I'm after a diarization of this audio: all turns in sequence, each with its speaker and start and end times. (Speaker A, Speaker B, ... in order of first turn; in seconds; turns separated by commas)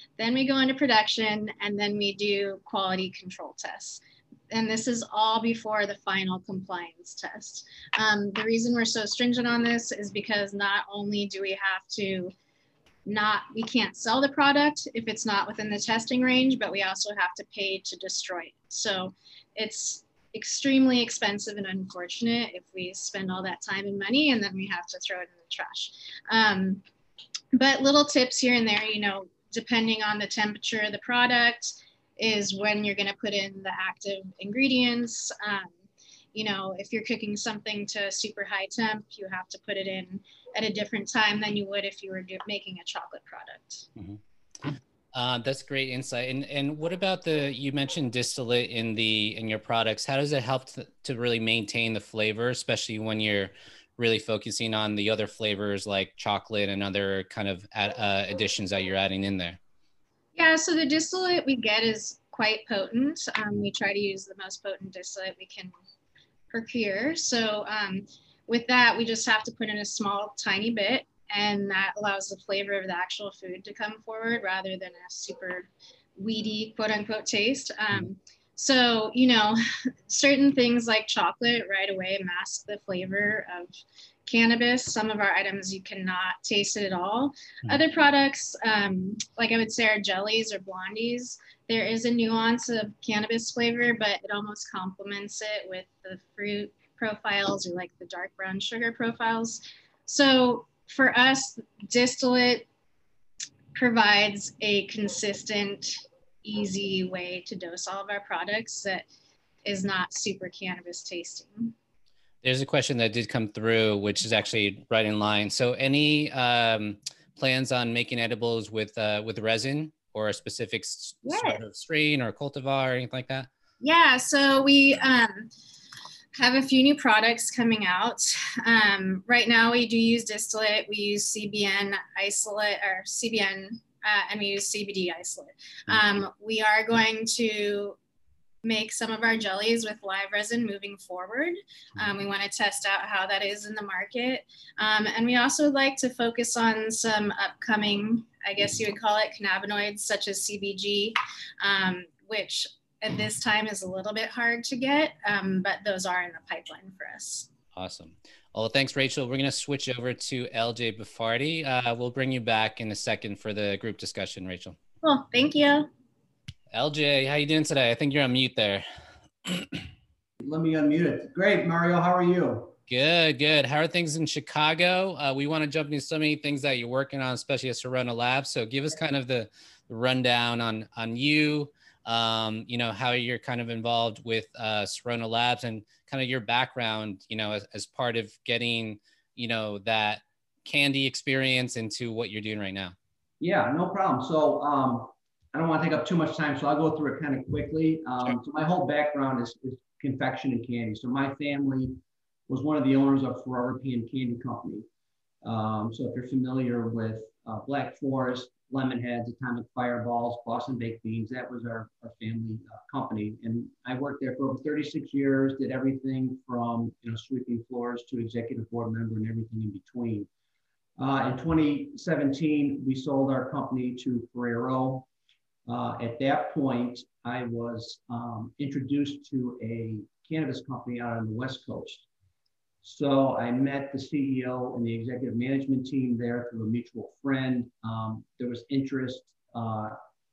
Speaker A: 0.2-12.3, Speaker A: 13.1-26.8, Speaker A: 27.5-35.7, Speaker A: 36.3-43.9, Speaker B: 44.0-59.6, Speaker A: 60.4-65.7, Speaker A: 66.5-83.8, Speaker A: 84.3-102.7, Speaker A: 103.8-109.1, Speaker A: 109.6-111.7, Speaker B: 112.4-123.5, Speaker A: 121.2-121.6, Speaker A: 123.8-125.5, Speaker A: 126.4-138.0, Speaker A: 138.6-157.5, Speaker B: 157.8-164.8, Speaker A: 165.0-165.9, Speaker B: 166.7-168.8, Speaker B: 169.4-169.8, Speaker C: 170.4-172.7, Speaker B: 172.9-192.9, Speaker C: 193.4-202.0, Speaker C: 202.5-204.8, Speaker C: 205.4-220.3, Speaker C: 221.0-225.1, Speaker C: 225.7-232.0, Speaker C: 232.8-240.0